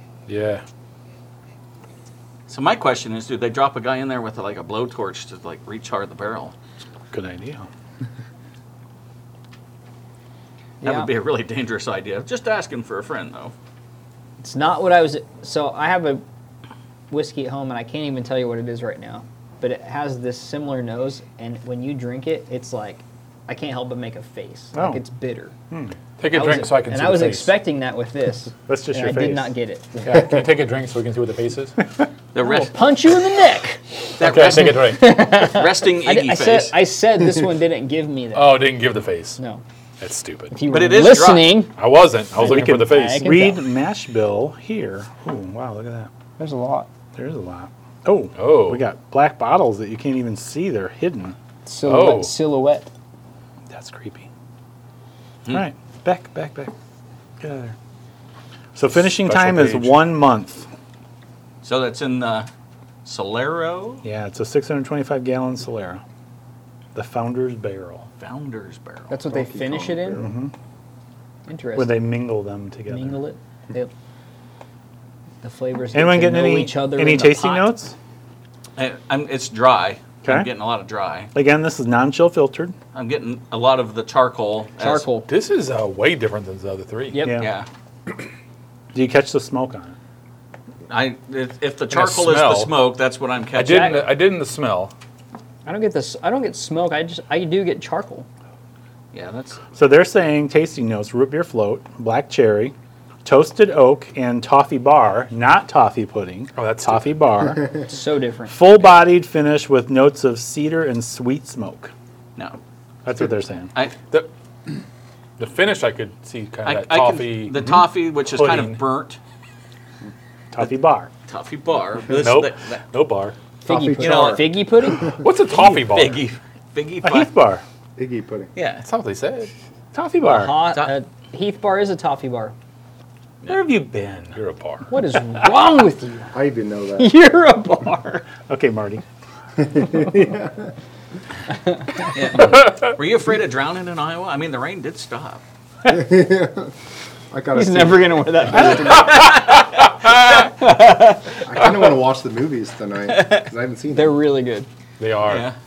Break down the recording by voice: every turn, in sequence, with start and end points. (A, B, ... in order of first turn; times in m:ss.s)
0:00.3-0:00.6 A
0:02.5-0:06.6 B
0:07.1-0:07.7 C
0:10.8-0:13.5 B
0:10.8-0:11.1 D
0:14.4-0:16.2 D
0:17.1-0:25.6 D
0:24.7-0:25.0 C
0:25.7-0:26.0 C
0:26.2-0:27.6 A
0:26.3-0:30.4 D
0:28.7-0:29.5 C
0:30.1-0:31.8 A
0:32.4-0:32.8 B
0:32.4-0:38.7 D
0:34.2-0:36.8 B
0:34.2-0:35.1 A
0:38.3-0:39.4 A
0:39.4-0:39.6 D
0:40.0-0:40.5 A
0:40.5-0:41.7 D
0:40.7-0:41.6 B
0:41.8-0:43.5 A
0:42.4-0:43.6 D
0:43.2-0:46.1 C
0:46.4-0:46.9 D
0:47.2-0:51.4 C
0:48.4-0:48.8 A
0:51.6-0:52.9 D
0:51.9-0:52.3 A
0:53.7-0:54.3 C
0:55.5-0:56.7 C
0:57.4-0:57.8 C
0:58.8-1:00.7 C
0:59.0-1:00.0 A
1:01.6-1:02.5 B
1:03.0-1:04.0 B
1:04.0-1:06.0 C
1:07.0-1:08.1 C
1:08.2-1:09.1 B
1:09.1-1:10.3 D
1:09.3-1:10.3 E
1:10.2-1:10.5 C
1:11.5-1:12.0 D
1:11.8-1:13.2 C
1:12.9-1:13.9 D
1:15.4-1:17.7 D
1:15.9-1:18.0 C
1:18.8-1:21.3 B
1:21.3-1:22.8 C
1:22.9-1:25.1 B
1:24.8-1:25.3 D
1:25.3-1:27.3 A
1:27.1-1:27.4 D
1:27.2-1:27.5 C
1:27.4-1:27.7 B
1:28.9-1:30.0 C
1:30.9-1:34.1 B
1:31.9-1:32.7 A
1:33.6-1:34.9 A
1:33.6-1:34.1 D
1:35.7-1:38.3 D
1:39.1-1:39.6 B
1:39.8-1:42.7 C
1:43.2-1:47.6 C
1:46.6-1:47.2 A
1:47.9-1:48.7 D
1:48.5-1:51.9 C
1:53.0-1:53.7 C
1:55.4-1:57.7 A
1:56.6-1:59.2 B
1:58.4-1:58.8 A
2:00.5-2:01.1 C
2:01.3-2:02.8 B
2:02.1-2:03.4 A
2:03.6-2:05.2 D
2:03.7-2:05.2 E
2:04.0-2:04.5 B
2:05.1-2:06.2 A
2:05.5-2:07.3 B
2:07.0-2:07.6 C
2:08.0-2:08.5 E
2:08.6-2:08.8 B
2:08.8-2:09.5 A
2:09.9-2:10.5 C
2:10.3-2:12.5 D
2:10.5-2:10.9 B
2:13.5-2:14.4 C
2:14.4-2:15.0 A
2:14.9-2:16.4 D
2:16.3-2:17.1 E
2:17.0-2:18.3 D
2:18.5-2:19.0 C
2:19.6-2:20.7 E
2:22.1-2:25.4 B
2:22.4-2:22.9 A
2:25.8-2:26.7 E
2:27.3-2:29.5 E
2:27.5-2:29.3 D
2:28.9-2:29.9 B
2:29.2-2:30.5 A
2:30.3-2:31.4 D
2:31.4-2:34.2 E
2:33.1-2:33.4 B
2:33.9-2:34.7 D
2:35.0-2:35.5 A
2:35.2-2:35.6 B